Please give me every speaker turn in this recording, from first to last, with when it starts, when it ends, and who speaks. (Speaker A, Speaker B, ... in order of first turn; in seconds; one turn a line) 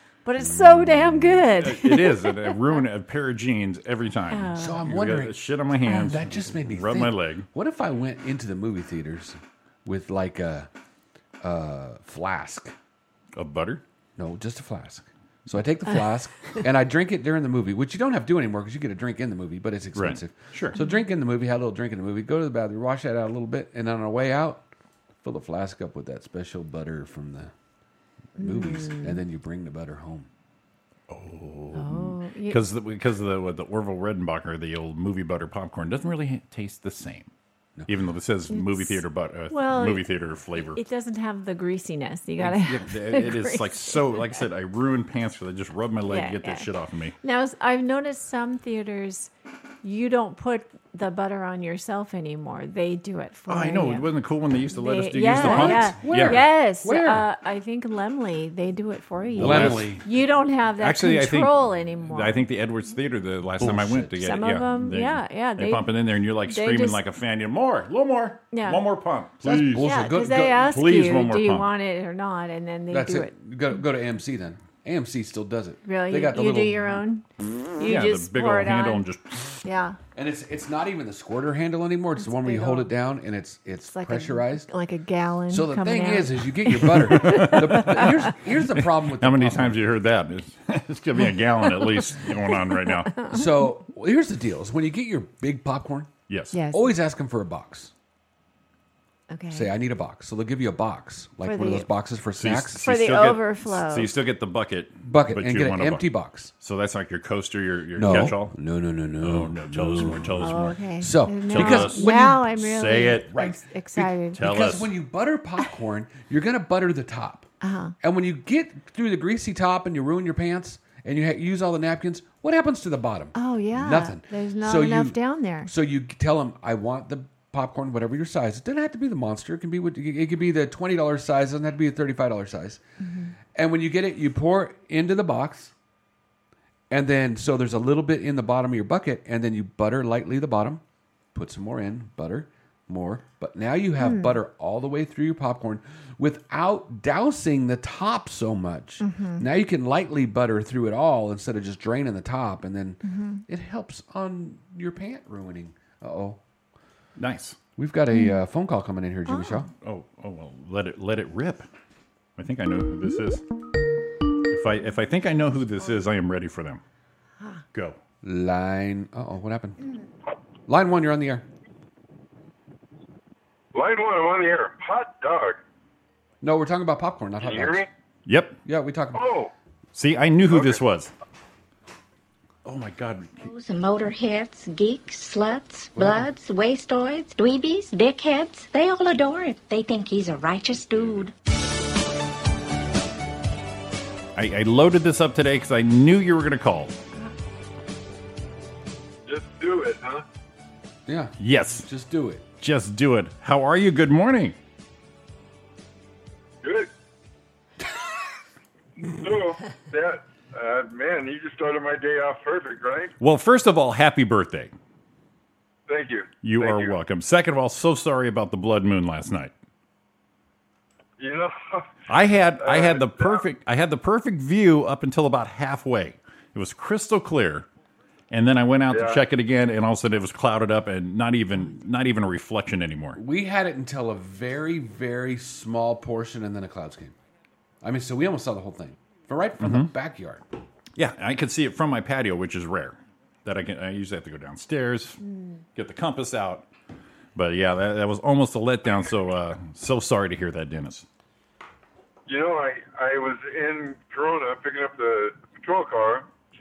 Speaker A: 0.2-2.6
Speaker B: 0.4-1.3
Speaker C: 1.5-7.5
Speaker A: 4.3-4.8
Speaker B: 4.6-10.7
Speaker A: 5.9-6.1
Speaker B: 11.4-12.7
Speaker C: 13.4-13.8
Speaker B: 14.2-24.7
Speaker C: 19.9-20.8
Speaker A: 20.8-21.0
Speaker B: 25.2-27.5
Speaker B: 28.4-30.3
Speaker A: 28.4-29.2
Speaker C: 31.1-37.3
Speaker A: 31.7-32.6
Speaker C: 37.9-40.8
Speaker A: 38.5-44.4
Speaker C: 42.4-47.1
Speaker A: 46.1-46.7
Speaker A: 47.2-49.3
Speaker A: 49.8-54.1
Speaker C: 53.5-56.4
Speaker A: 54.8-62.4
Speaker B: 55.3-57.3
Speaker C: 59.4-60.0
Speaker B: 59.4-60.0
Speaker C: 60.8-69.9
Speaker B: 63.6-64.4
Speaker A: 64.2-65.9
Speaker A: 66.5-67.0
Speaker A: 68.5-68.8
Speaker B: 69.4-70.8
Speaker A: 69.8-73.3
Speaker C: 70.6-71.7
Speaker B: 72.9-76.9
Speaker A: 75.8-77.3
Speaker A: 77.8-79.0
Speaker C: 77.8-79.6
Speaker A: 79.6-80.0
Speaker B: 80.2-84.7
Speaker A: 82.2-82.9
Speaker A: 83.9-88.3
Speaker B: 85.5-89.8
Speaker C: 86.9-88.1
Speaker C: 89.1-93.2
Speaker A: 91.7-93.7
Speaker B: 93.3-96.2
Speaker C: 96.3-96.6
Speaker A: 96.5-96.9
Speaker B: 96.7-97.9
Speaker A: 99.3-99.7
Speaker B: 99.5-102.8
Speaker A: 101.4-101.9
Speaker C: 102.4-106.1
Speaker A: 102.8-104.1
Speaker B: 105.1-106.5
Speaker C: 106.6-108.6
Speaker B: 108.0-112.5
Speaker C: 109.2-110.8
Speaker A: 110.4-114.4
Speaker C: 111.5-113.3
Speaker B: 113.3-117.5
Speaker C: 114.3-114.9
Speaker A: 117.6-117.9
Speaker B: 118.0-132.8
Speaker A: 123.3-125.7
Speaker A: 133.0-133.3
Speaker B: 133.5-135.7
Speaker B: 136.9-140.8
Speaker B: 141.3-156.4
Speaker A: 144.0-144.4
Speaker A: 149.0-149.4
Speaker A: 153.0-153.4
Speaker C: 157.2-157.6
Speaker B: 157.8-159.7
Speaker A: 158.1-158.4
Speaker A: 159.3-159.6
Speaker C: 159.8-161.7
Speaker C: 162.4-163.4
Speaker C: 164.5-166.8
Speaker B: 168.2-169.8
Speaker B: 170.7-171.4
Speaker D: 173.7-175.6
Speaker B: 176.4-177.9
Speaker D: 177.4-177.9
Speaker C: 178.3-178.6
Speaker B: 178.7-179.3
Speaker D: 179.1-179.5
Speaker C: 179.9-181.1
Speaker D: 180.5-180.8
Speaker C: 182.7-183.5
Speaker E: 183.4-191.3
Speaker B: 185.9-186.3
Speaker C: 194.3-197.0
Speaker D: 199.3-200.2
Speaker B: 201.1-202.4
Speaker C: 201.4-201.9
Speaker C: 202.6-204.6
Speaker D: 206.6-206.9
Speaker D: 209.0-213.1
Speaker C: 213.2-214.7
Speaker D: 215.9-217.0
Speaker C: 216.4-219.5
Speaker D: 221.2-221.9
Speaker C: 222.1-227.7
Speaker D: 222.6-223.5
Speaker C: 228.3-233.2
Speaker D: 228.9-229.2
Speaker B: 233.2-237.2
Speaker B: 237.8-240.4
Speaker C: 239.6-239.9
Speaker C: 241.0-245.2
Speaker C: 245.8-246.7
Speaker C: 247.3-251.1
Speaker D: 252.3-256.3